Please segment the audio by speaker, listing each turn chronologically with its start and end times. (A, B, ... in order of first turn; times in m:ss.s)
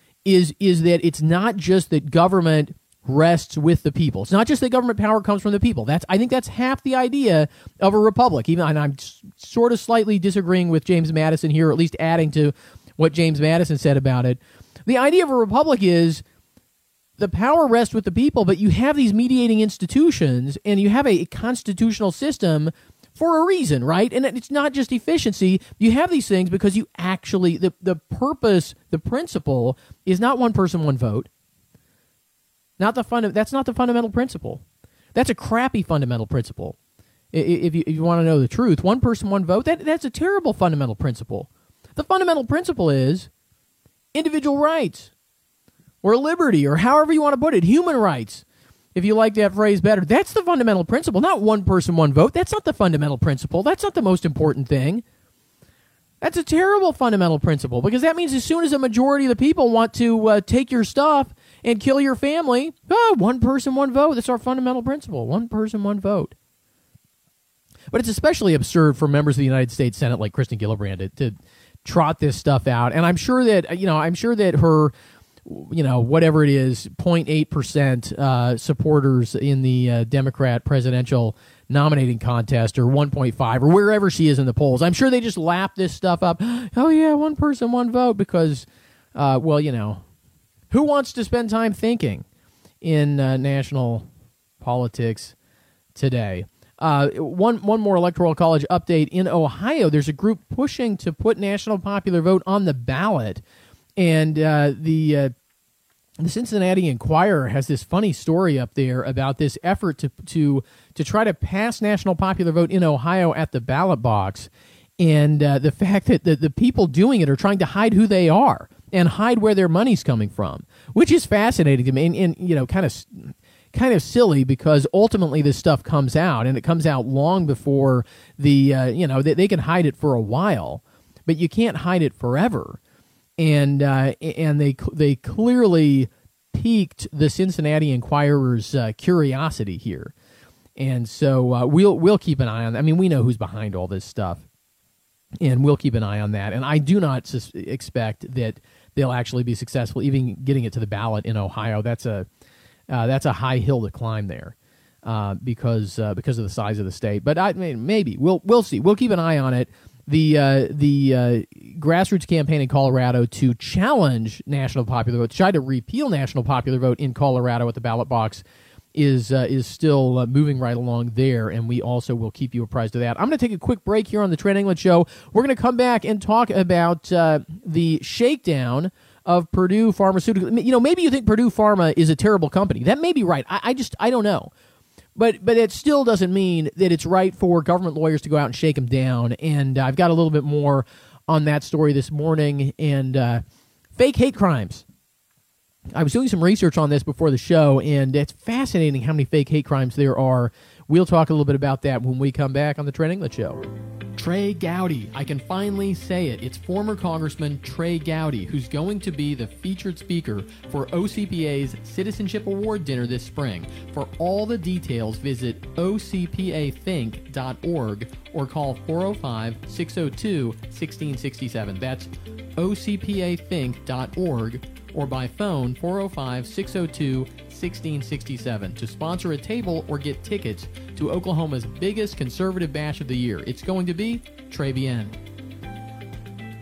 0:00.2-0:16.2 A
0:17.2-0:31.3 A
0:32.8-0:34.6 A
0:35.1-0:36.8 A
0:37.3-0:43.3 A
0:44.1-0:45.1 A
0:46.0-0:48.4 A
0:49.0-0:55.0 A
0:56.2-1:06.3 A
1:07.9-1:14.9 A
1:15.4-1:30.0 A
1:30.7-1:32.2 A
1:32.8-1:34.1 A
1:34.6-1:35.4 A
1:36.0-1:43.4 A
1:44.0-1:45.3 A
1:46.2-2:12.8 A
2:13.4-2:20.1 A
2:20.8-2:24.4 A
2:25.4-2:32.3 A
2:32.9-2:48.4 A
2:49.0-3:04.5 A
3:05.2-3:13.4 A
3:14.0-3:14.8 A
3:16.0-3:23.6 A
3:24.2-3:55.2 A